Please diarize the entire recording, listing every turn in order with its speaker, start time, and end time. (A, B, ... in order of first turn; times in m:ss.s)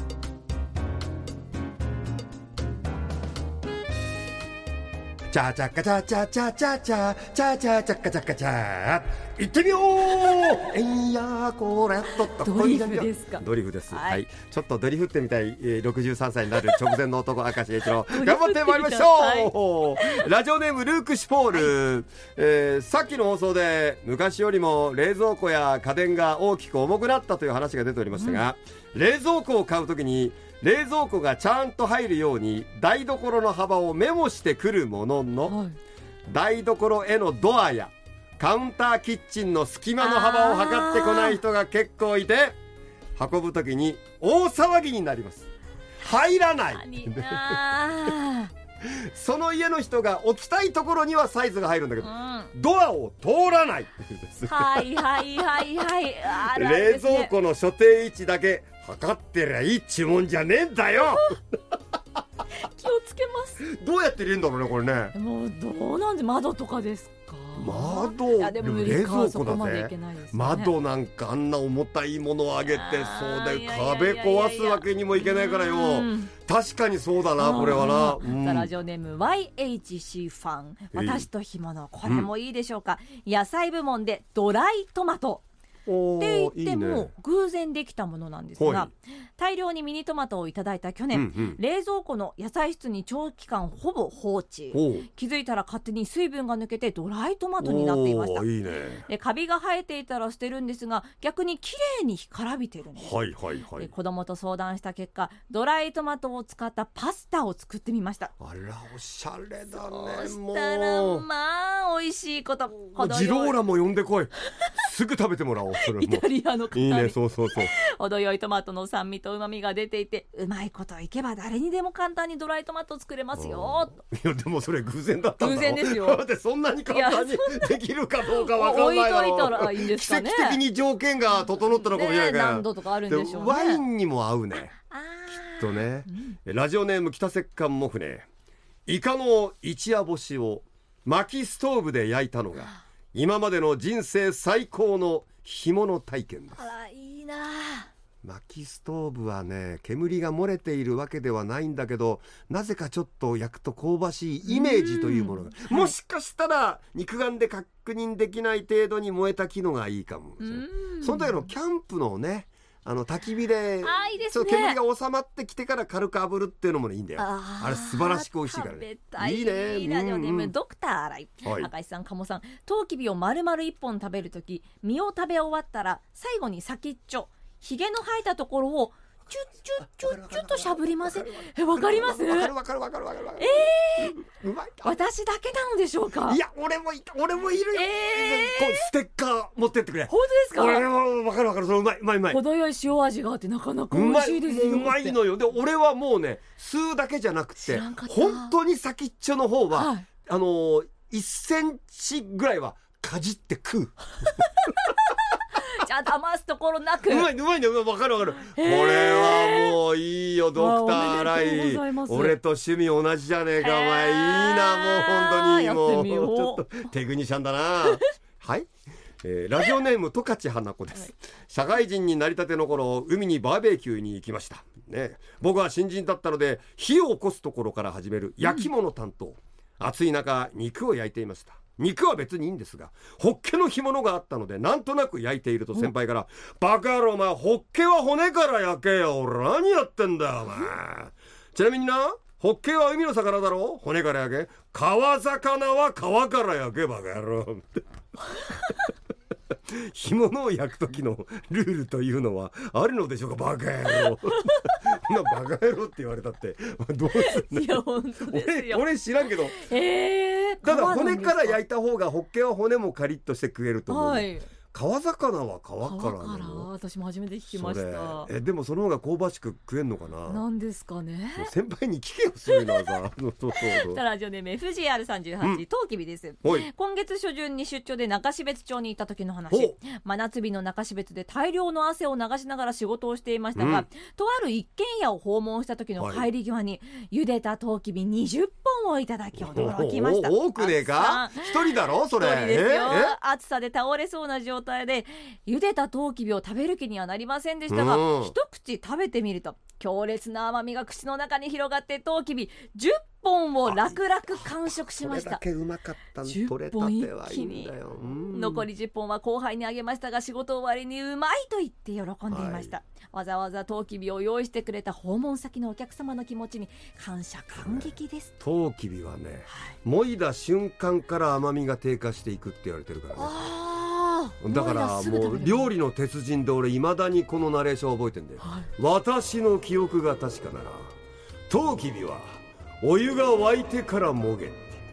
0:05.3-0:35.6 A
0:12.2-0:14.2 B
0:16.6-0:16.9 B
0:18.1-0:20.3 B
0:28.1-0:28.4 B
0:35.5-0:35.8 B
0:36.3-0:42.6 A
0:40.0-0:41.4 B
0:43.2-0:45.5 A
0:46.0-0:47.6 A
0:46.7-0:48.5 B
0:48.8-0:55.0 A
0:52.0-0:52.5 B
0:54.5-0:57.3 B
0:56.4-1:01.4 A
1:02.6-1:03.6 B
1:03.6-1:05.1 A
1:05.1-1:10.8 B
1:07.6-1:18.7 A
1:12.7-1:16.3 B
1:17.4-1:25.4 B
1:20.9-1:21.3 A
1:25.9-1:27.1 A
1:26.2-1:38.5 B
1:28.6-1:28.9 A
1:31.1-1:31.6 A
1:34.7-1:35.1 A
1:37.6-1:39.1 A
1:39.1-1:43.2 B
1:43.0-1:43.9 A
1:43.8-1:48.3 B
1:48.4-1:51.2 A
1:49.8-1:53.6 B
1:53.0-1:57.7 A
1:55.8-2:04.0 B
2:03.4-2:14.8 A
2:05.4-2:06.2 B
2:06.9-2:10.6 B
2:11.4-2:13.8 B
2:14.7-2:16.4 B
2:15.6-2:18.3 A
2:18.9-2:26.6 A
2:26.6-2:27.9 B
2:28.2-2:50.5 A
2:34.4-2:35.9 B
2:40.4-2:41.5 B
2:43.8-2:44.8 B
2:47.2-3:02.5 B
2:51.4-2:51.7 A
2:59.8-3:05.0 A
3:03.4-3:04.2 B
3:04.8-3:06.4 B
3:06.3-3:12.4 A
3:07.7-3:08.9 B
3:10.1-3:10.9 B
3:12.3-3:15.2 B
3:13.9-3:24.3 A
3:17.6-3:18.6 B
3:19.7-3:20.0 B
3:24.2-3:27.3 B
3:27.1-3:38.7 A
3:28.5-3:29.8 B
3:30.6-3:32.4 B
3:33.6-3:36.8 B
3:39.2-4:07.8 A
4:09.7-4:19.6 A
4:14.3-4:14.8 B
4:17.1-4:21.6 B
4:20.6-4:26.7 A
4:23.9-4:24.5 B
4:25.8-4:28.3 B
4:27.5-4:30.4 A
4:30.3-4:31.5 B
4:31.4-4:34.0 A
4:32.5-4:33.0 B
4:33.6-5:05.4 B
4:39.5-4:39.8 A
4:43.6-4:43.9 A
4:46.0-4:46.3 A
4:49.4-4:53.2 A
4:57.7-4:58.4 A
5:03.7-5:08.7 A
5:06.2-5:07.7 B
5:08.3-5:18.3 B
5:12.3-5:12.7 A
5:17.6-5:23.4 A
5:23.2-5:25.7 B
5:24.4-5:30.9 A
5:28.4-5:28.7 B
5:31.5-5:32.3 A
5:32.8-5:34.8 A